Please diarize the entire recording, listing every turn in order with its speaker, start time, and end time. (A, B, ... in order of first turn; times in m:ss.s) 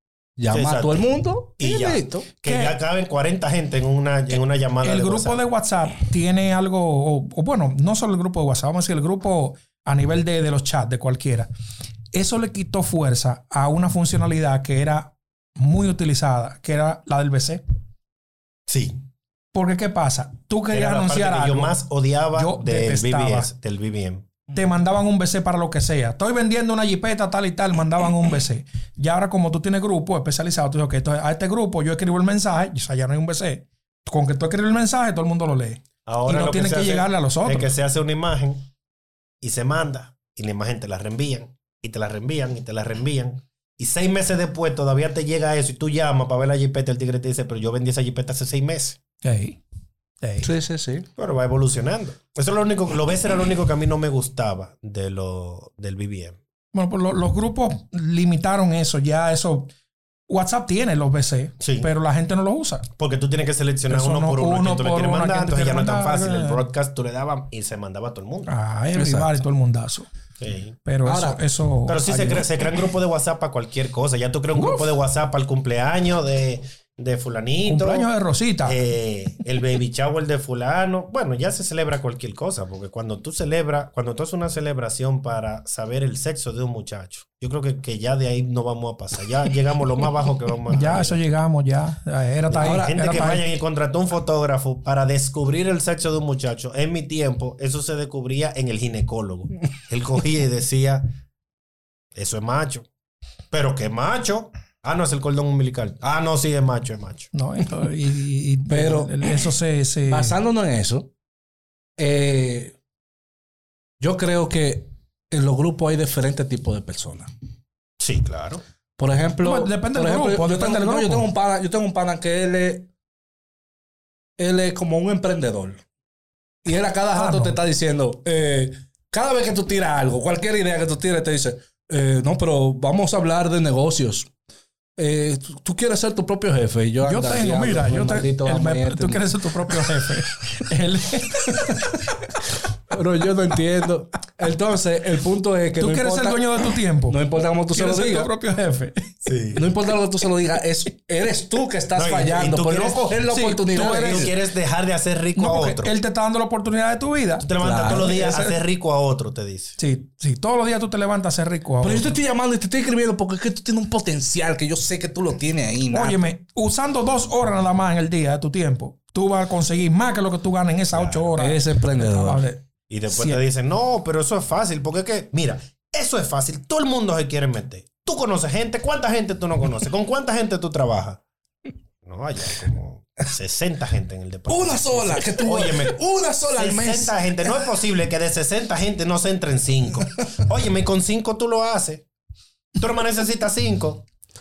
0:00.4-0:02.3 A
0:00.5-0:05.4 B
0:02.5-0:02.8 C
0:04.8-0:11.5 C
0:12.1-0:17.6 C
0:18.7-0:19.0 B
0:19.5-0:21.8 C
0:20.7-0:24.3 B
0:22.4-0:23.5 C
0:24.5-0:37.7 C
0:36.1-0:38.7 B
0:39.4-0:49.0 B
0:49.2-0:49.6 C
0:50.2-0:50.5 C
0:50.4-0:51.1 A
0:51.2-0:56.4 B
0:56.7-0:59.7 C
1:00.3-1:02.9 C
1:01.6-1:01.9 B
1:03.0-1:08.5 B
1:03.9-1:06.6 C
1:08.5-1:10.1 C
1:09.0-1:09.4 A
1:10.4-1:10.8 B
1:10.9-1:12.5 C
1:11.0-1:11.4 A
1:11.9-1:18.1 B
1:14.6-1:14.9 C
1:17.7-1:18.8 C
1:18.7-1:31.2 B
1:30.7-1:33.5 C
1:32.5-1:41.1 B
1:32.6-1:33.4 A
1:42.2-1:42.9 B
1:43.5-1:47.3 B
1:47.3-1:50.4 C
1:48.7-1:49.4 A
1:50.1-1:51.1 A
1:52.0-1:52.8 A
1:54.0-1:57.3 A
1:58.0-1:58.6 B
1:59.0-2:02.9 A
1:59.4-2:01.3 C
2:04.4-2:05.8 A
2:06.6-2:14.3 A
2:07.2-2:07.6 C
2:15.0-2:19.9 A
2:17.0-2:22.3 C
2:21.5-2:21.8 A
2:22.9-2:28.3 A
2:25.8-2:29.1 C
2:29.2-2:29.7 B
2:29.5-2:34.3 A
2:32.0-2:33.2 B
2:33.3-2:34.3 C
2:33.8-2:35.9 B
2:35.4-2:38.6 C
2:37.4-2:39.8 B
2:37.6-2:38.2 A
2:39.8-2:42.1 C
2:41.8-2:46.2 A
2:45.9-2:53.4 C
2:50.9-2:51.3 B
2:51.4-2:52.4 A
2:52.9-3:01.2 B
3:02.0-3:12.1 B
3:04.5-3:07.2 A
3:12.8-3:14.1 B